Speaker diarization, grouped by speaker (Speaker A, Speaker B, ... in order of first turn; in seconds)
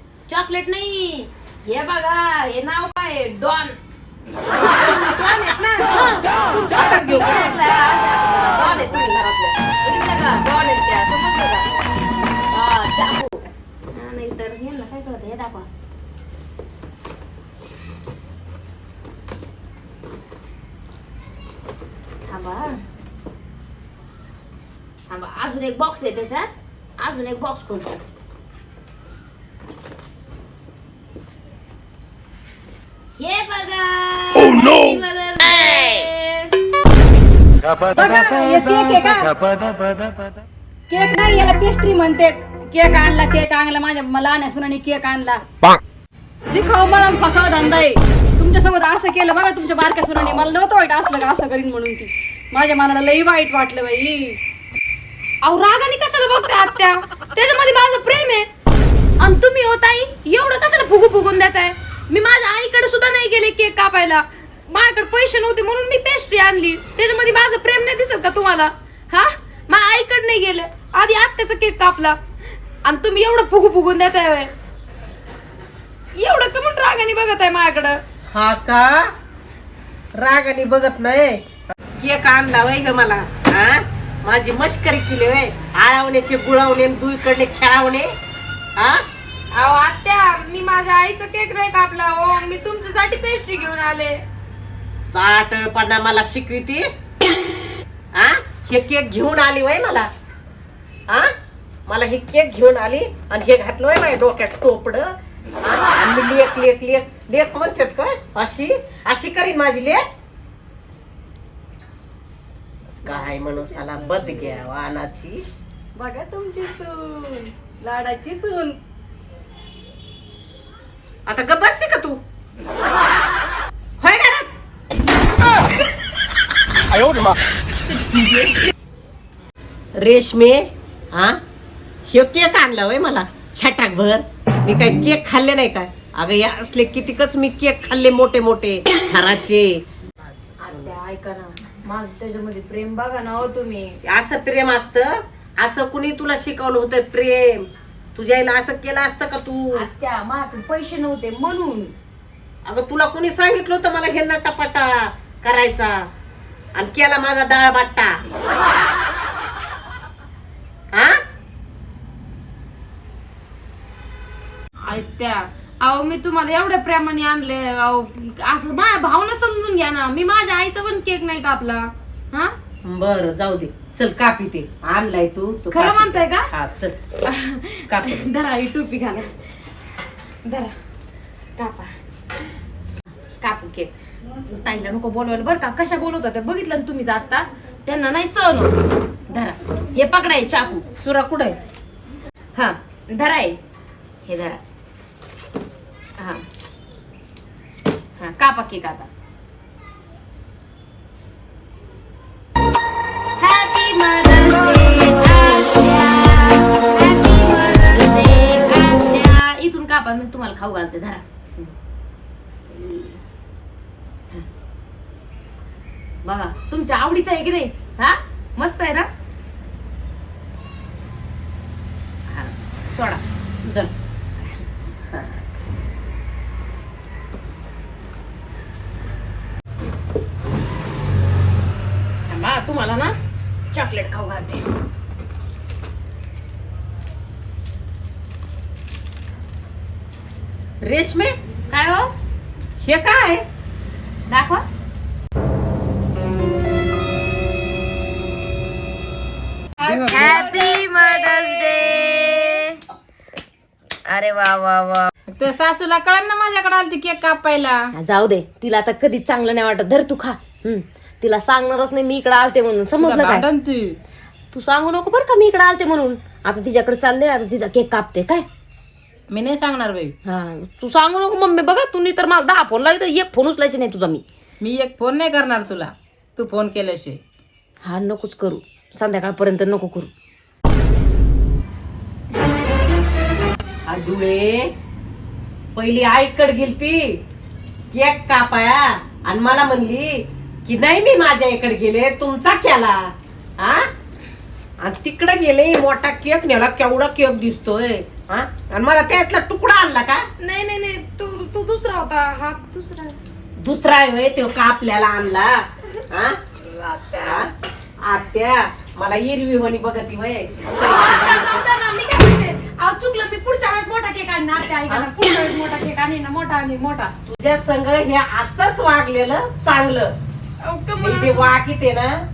Speaker A: 0.3-3.8, 4.5-11.7, 12.5-15.7, 22.3-22.7, 25.1-26.5, 27.0-28.0, 33.2-36.5, 55.4-58.5, 59.2-72.2, 72.9-74.5, 76.2-78.0, 89.5-94.2, 140.6-144.0, 149.7-151.9, 164.8-172.5, 175.7-176.5, 177.2-179.3, 180.4-180.7, 181.6-181.9, 183.4-183.9, 184.5-188.8, 189.3-190.9, 192.6-193.6, 194.3-194.6, 196.2-196.4, 198.2-199.1, 203.4-211.7, 212.7-213.2, 216.2-219.1, 222.3-225.5, 232.3-233.1, 233.7-234.6, 241.7-242.1, 244.3-244.6, 249.8-252.8, 254.1-255.1, 257.9-263.5, 264.5-268.5, 270.2-274.2, 277.8-280.1, 300.4-303.2, 306.6-307.5, 310.8-317.1, 320.7-321.6
Speaker B: 5.9-7.6, 78.3-79.1, 80.2-81.4, 82.0-88.1, 88.8-89.0, 95.1-96.9, 98.2-100.1, 101.9-110.0, 113.0-115.4, 121.3-122.2, 124.0-124.5, 127.0-127.3, 130.0-131.4, 132.1-139.8, 140.5-141.0, 144.1-149.9, 152.7-156.1, 156.8-158.2, 160.9-161.2, 172.8-176.9, 177.9-178.3, 190.9-191.6, 240.8-241.4, 242.8-243.4, 283.9-284.7, 285.8-287.1, 287.9-293.9, 294.8-300.2, 303.6-306.4, 307.2-307.5, 308.0-311.6, 317.3-320.1, 321.0-322.2
Speaker C: 37.9-39.3, 40.9-45.4, 46.5-54.4, 116.0-118.8
Speaker D: 116.2-116.8, 249.8-252.7, 255.3-257.9, 263.0-264.0, 269.3-270.1, 274.6-277.2